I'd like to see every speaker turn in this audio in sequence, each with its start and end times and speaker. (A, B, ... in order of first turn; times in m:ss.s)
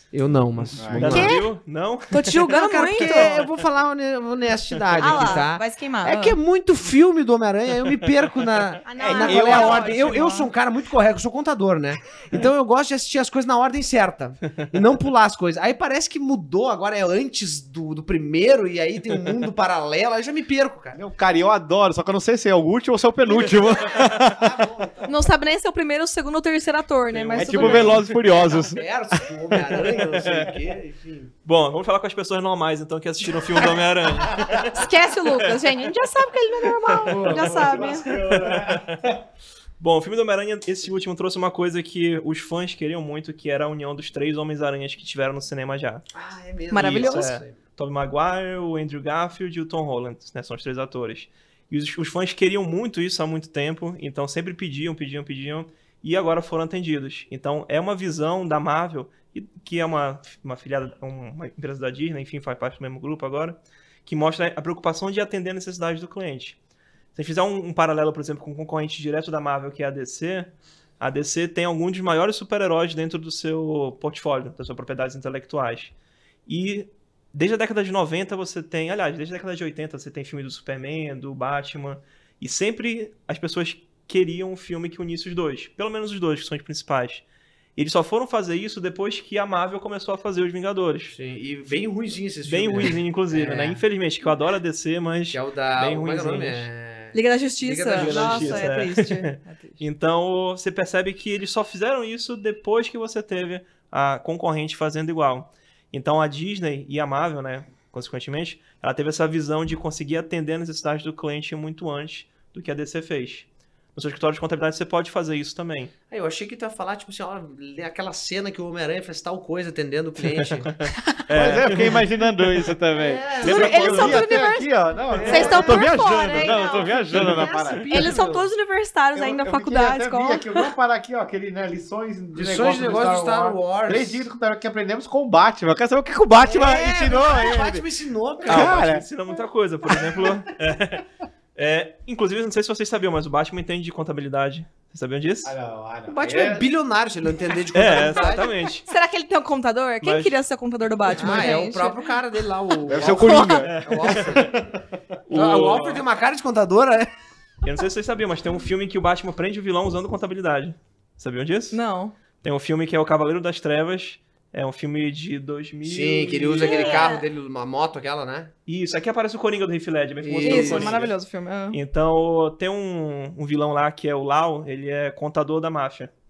0:00.1-0:01.4 A
0:00.5-0:03.6 B
0:00.8-0:01.4 C
0:01.1-0:01.5 D
0:02.1-0:03.4 D
0:02.3-0:21.0 A
0:05.0-0:06.4 D
0:05.0-0:05.4 B
0:08.9-0:10.5 D
0:09.0-0:10.1 C
0:20.9-0:24.9 C
0:23.2-0:25.1 A
0:25.0-0:28.1 D
0:27.1-0:28.2 B
0:27.4-0:28.8 C
0:28.3-0:31.3 A
0:29.6-0:30.6 B
0:31.4-0:35.4 B
0:34.7-0:38.1 D
0:36.8-0:39.0 B
0:37.1-0:39.2 C
0:39.8-0:46.1 B
0:46.1-0:47.6 A
0:46.7-0:47.3 D
0:46.7-1:06.6 B
1:07.1-1:15.9 B
1:16.5-1:27.2 B
1:27.8-1:31.1 B
1:31.1-1:33.8 A
1:32.4-1:36.7 B
1:35.3-1:38.9 A
1:37.1-1:39.8 D
1:37.9-1:55.9 B
1:56.1-2:00.7 A
2:00.4-2:02.0 B
2:01.3-2:07.9 C
2:02.9-2:04.3 A
2:03.4-2:04.7 D
2:03.4-2:04.2 B
2:05.1-2:08.5 A
2:05.2-2:07.0 D
2:07.9-2:10.7 D
2:09.1-2:17.9 C
2:12.3-2:14.3 A
2:16.4-2:18.9 A
2:18.4-2:19.0 C
2:18.5-2:25.5 B
2:25.4-2:26.6 C
2:26.1-2:28.5 A
2:27.7-2:28.9 B
2:28.0-2:32.1 D
2:30.0-2:30.4 B
2:31.2-2:34.6 A
2:32.9-2:33.8 C
2:33.0-2:33.7 D
2:33.6-2:34.5 B
2:35.3-2:36.0 B
2:35.3-2:37.1 A
2:37.6-2:41.8 B
2:41.7-2:42.1 D
2:42.4-2:47.1 B
2:45.8-2:48.5 A
2:46.6-2:47.2 D
2:48.7-2:51.1 B
2:50.2-2:51.0 A
2:50.4-2:51.8 D
2:51.7-2:56.1 B